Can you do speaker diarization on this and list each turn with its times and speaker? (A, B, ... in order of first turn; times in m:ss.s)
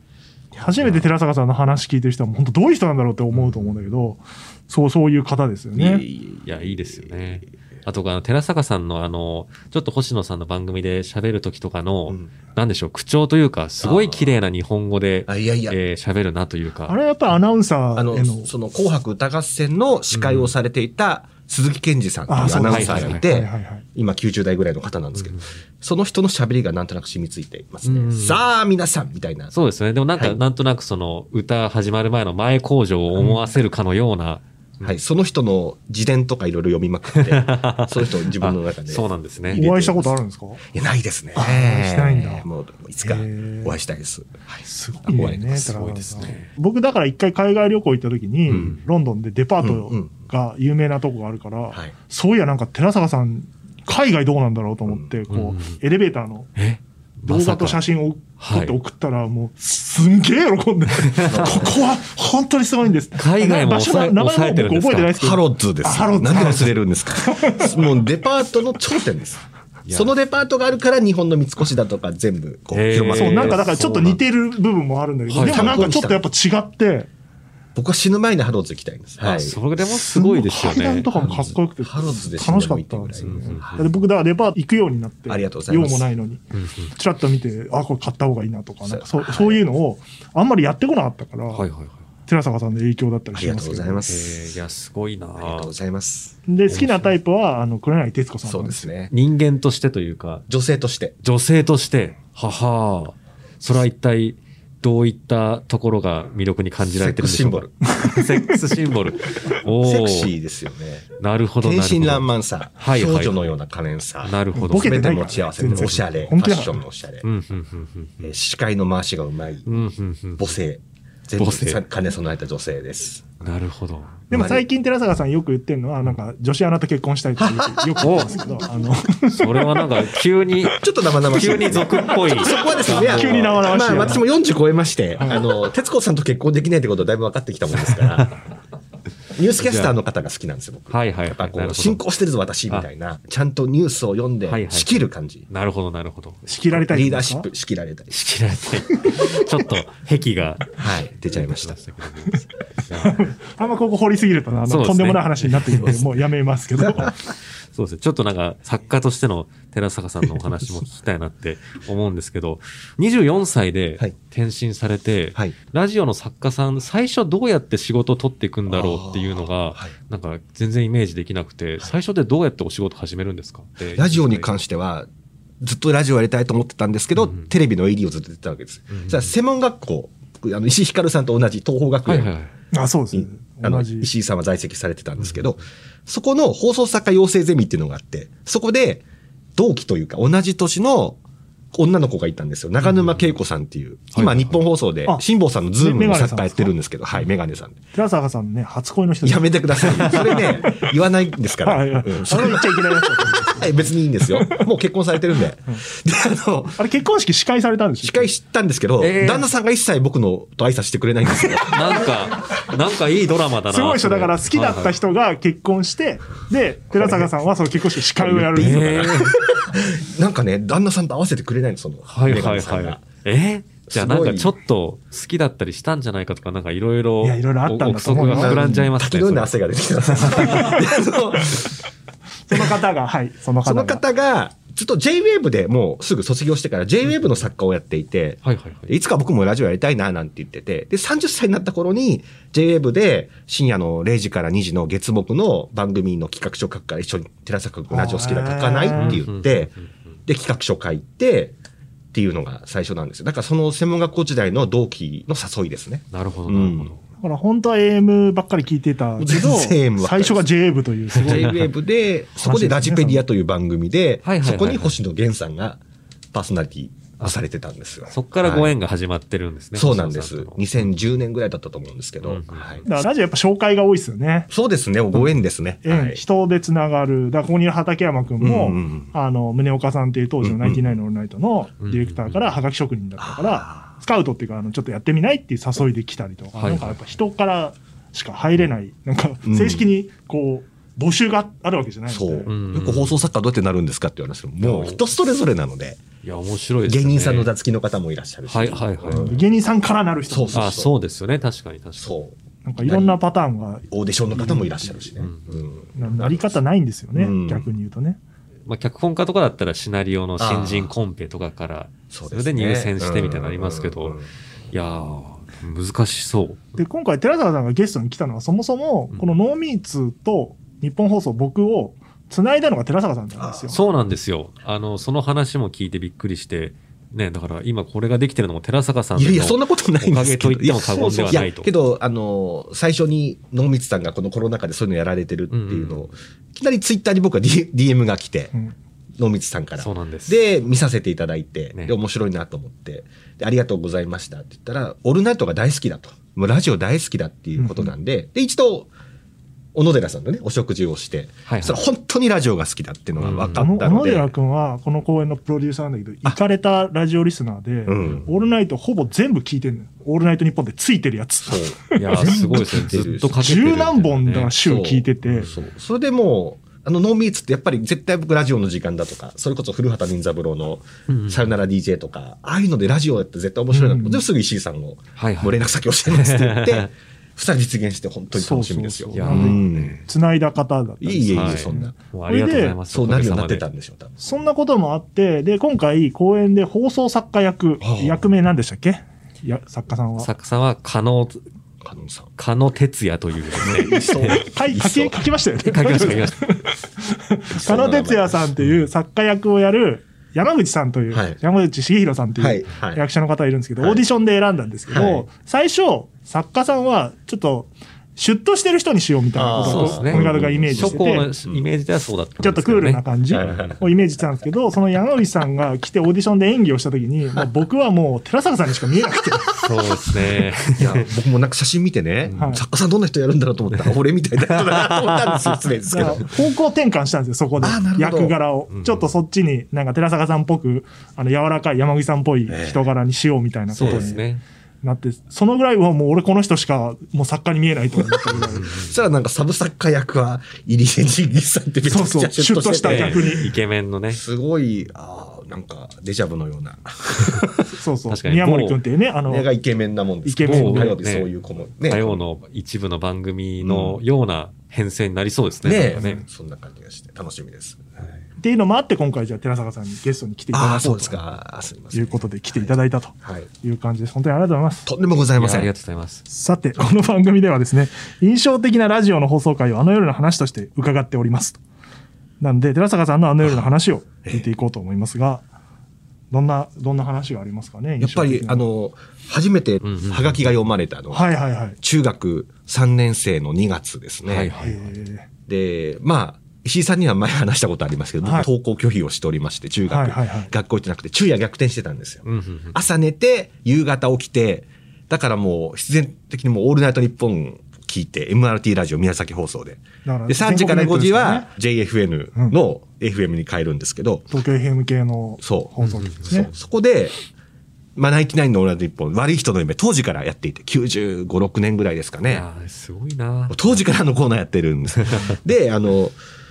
0:00.6-0:06.0 A
0:00.8-0:01.1 B
0:03.3-0:03.9 B
0:05.7-0:07.4 C
0:06.4-0:17.0 B
0:13.8-0:14.4 C
0:15.3-0:15.8 C
0:16.9-0:18.5 A
0:17.9-0:29.5 C
0:20.1-0:20.5 B
0:22.3-0:23.9 A
0:22.5-0:23.2 B
0:27.8-0:28.4 B
0:29.5-0:34.9 B
0:33.2-0:33.5 A
0:34.8-0:46.3 C
0:37.1-0:39.6 B
0:39.5-0:40.6 A
0:41.4-0:42.4 A
0:43.0-0:43.7 A
0:44.6-0:56.5 A
0:46.2-0:46.4 B
0:48.5-0:48.7 C
0:49.6-0:50.1 C
0:55.3-0:55.8 B
0:56.6-0:57.8 B
0:57.3-1:07.8 A
0:58.4-0:58.8 B
1:01.2-1:01.6 B
1:01.2-1:01.8 C
1:03.1-1:05.2 B
1:05.2-1:13.7 C
1:09.9-1:10.1 B
1:12.7-1:14.2 B
1:13.1-1:17.1 A
1:15.3-1:15.9 B
1:15.5-1:16.2 C
1:17.7-1:19.6 C
1:19.2-1:21.5 B
1:19.8-1:26.4 A
1:21.2-1:23.8 C
1:23.2-1:23.9 B
1:25.3-1:26.1 C
1:26.5-1:26.9 B
1:26.9-1:31.6 A
1:28.9-1:29.6 C
1:31.5-1:32.0 B
1:32.3-1:34.0 A
1:33.4-1:34.6 C
1:34.0-1:35.7 B
1:35.4-1:36.4 C
1:36.5-1:38.9 A
1:36.7-1:37.1 B
1:38.4-1:39.1 C
1:39.1-1:40.4 B
1:40.5-1:41.2 C
1:41.2-1:50.3 B
1:46.9-1:47.7 C
1:47.9-1:48.7 A
1:49.8-1:51.0 C
1:51.2-1:53.5 B
1:51.6-1:57.2 C
1:54.2-1:56.2 B
1:54.6-1:56.7 A
1:57.2-1:58.3 B
1:58.2-1:59.7 C
1:59.7-2:00.5 B
2:00.4-2:03.4 C
2:01.4-2:01.8 B
2:03.4-2:04.2 B
2:04.3-2:09.9 A
2:04.3-2:04.6 C
2:07.4-2:08.1 C
2:08.0-2:08.4 B
2:09.3-2:14.2 B
2:10.8-2:18.3 C
2:12.0-2:14.2 A
2:15.2-2:15.5 A
2:17.9-2:18.3 B
2:19.4-2:25.5 C
2:19.6-2:19.9 B
2:20.9-2:22.0 B
2:24.4-2:26.5 B
2:26.5-2:27.5 A
2:26.7-2:28.2 C
2:28.1-2:33.3 B
2:29.0-2:29.4 A
2:30.7-2:31.8 C
2:33.0-2:37.1 A
2:34.7-2:36.0 B
2:37.7-2:54.5 B
2:48.7-2:49.9 C
2:53.9-2:55.1 C
2:55.6-3:02.3 C
2:57.2-2:57.5 B
2:58.9-2:59.3 B
3:02.0-3:02.5 B
3:02.7-3:04.1 A
3:03.1-3:09.0 C
3:09.6-3:11.2 C
3:11.7-3:17.8 C
3:12.9-3:13.2 B
3:14.1-3:14.6 B
3:15.8-3:16.7 A
3:17.9-3:20.9 A
3:19.2-3:26.8 C
3:21.6-3:24.6 A
3:26.8-3:28.3 A
3:28.0-3:32.1 C
3:29.0-3:29.5 B
3:31.6-3:32.0 A
3:31.6-3:35.0 B
3:33.7-3:39.2 A
3:36.9-3:37.3 C
3:38.0-3:43.0 C
3:38.6-3:39.3 B
3:42.1-3:49.6 B
3:43.9-3:44.5 C
3:47.2-3:48.6 A
3:48.2-3:51.8 C
3:50.1-3:50.7 B
3:50.4-3:50.8 A
3:52.5-3:54.0 A
3:53.6-4:09.7 C
3:58.4-3:58.9 B
4:07.9-4:09.2 A
4:09.0-4:09.7 B
4:10.3-4:11.5 C
4:12.1-4:16.9 C
4:16.1-4:17.0 B
4:17.2-4:21.6 A
4:19.2-4:20.5 C
4:21.1-4:25.8 C
4:22.4-4:23.2 A
4:24.2-4:25.0 B
4:26.3-4:28.7 C
4:28.1-4:30.6 B
4:29.7-4:32.8 C
4:32.2-4:32.9 B
4:32.8-4:34.5 A
4:34.5-4:36.2 C
4:35.8-4:52.5 A
4:38.4-4:39.1 C
4:40.4-4:41.0 C
4:41.8-4:42.5 B
4:43.2-4:43.9 C
4:46.6-4:47.0 B
4:49.4-4:49.9 C
4:52.1-4:56.0 C
4:52.5-4:53.3 B
4:54.6-4:55.0 B
4:56.2-4:57.5 B
4:56.9-4:59.4 C
4:58.5-4:59.3 B
4:59.1-5:00.7 A
5:00.3-5:00.9 C
5:00.5-5:02.1 B
5:02.0-5:03.2 C
5:02.6-5:05.0 A
5:03.9-5:06.6 C
5:05.2-5:05.5 B
5:06.0-5:08.2 A
5:07.1-5:07.7 C
5:08.6-5:14.2 B
5:10.4-5:10.9 C
5:12.1-5:14.3 C
5:14.7-5:16.8 B
5:16.8-5:23.8 A
5:23.4-5:23.7 C
5:23.7-5:31.7 B
5:29.2-5:38.5 C
5:30.9-5:31.5 A
5:35.5-5:36.1 B
5:39.2-5:48.9 C
5:39.8-5:40.4 B
5:47.6-5:47.9 A
5:49.7-5:54.3 C
5:51.5-5:51.8 B
5:53.2-5:53.6 B
5:53.4-6:02.6 A
5:57.9-5:58.3 C
6:01.4-6:03.7 C
6:02.0-6:04.5 B
6:03.4-6:05.5 A
6:04.6-6:20.0 C
6:11.1-6:11.5 B
6:13.7-6:14.2 A
6:15.2-6:16.9 B
6:18.4-6:22.8 A
6:19.1-6:20.0 B
6:21.0-6:22.0 C
6:21.3-6:23.6 B
6:22.9-6:24.2 C
6:24.2-6:30.3 A
6:27.8-6:28.2 C
6:30.2-6:31.4 B
6:31.8-6:32.3 C
6:32.4-6:34.4 B
6:33.5-6:35.2 C
6:34.3-6:51.3 A
6:35.6-6:36.4 B
6:37.5-6:38.4 C
6:41.1-6:41.4 C
6:42.4-6:43.0 C
6:44.9-6:45.2 C
6:49.4-6:51.6 C
6:49.6-6:53.0 B
6:52.4-6:59.5 A
6:53.3-6:53.8 C
6:59.3-7:06.4 C
6:59.6-7:01.1 B
7:02.3-7:02.6 A
7:04.5-7:05.6 B
7:05.9-7:14.2 A
7:07.6-7:08.4 C
7:08.7-7:09.1 B
7:12.5-7:12.8 C
7:13.8-7:14.4 B
7:13.8-7:14.2 C
7:14.8-7:18.9 A
7:18.2-7:23.4 C
7:18.6-7:18.9 B
7:21.9-7:23.5 A
7:22.8-7:24.2 B
7:24.1-7:27.7 C
7:27.7-7:29.5 A
7:28.1-7:28.8 B
7:29.3-7:32.2 C
7:30.2-7:31.0 A
7:30.4-7:31.3 B
7:31.9-7:36.2 B
7:33.6-7:34.0 C
7:35.6-7:38.2 C
7:36.0-7:36.2 A
7:38.4-7:41.2 A
7:40.5-7:43.5 C
7:41.9-7:44.9 A
7:44.9-7:45.7 C
7:45.4-7:46.2 B
7:46.3-7:51.6 A
7:52.4-7:55.4 A
7:56.3-7:58.6 A
7:58.0-8:04.5 C
7:59.8-8:00.5 B
8:01.1-8:01.8 A
8:04.2-8:04.9 B
8:04.6-8:05.3 A
8:05.5-8:24.3 C
8:08.2-8:08.5 A
8:09.9-8:10.5 A
8:12.2-8:12.8 B
8:20.0-8:21.5 A
8:24.3-8:26.5 A
8:25.4-8:27.1 C
8:25.8-8:26.2 B
8:28.0-8:32.4 C
8:32.2-8:33.7 B
8:33.5-8:36.2 C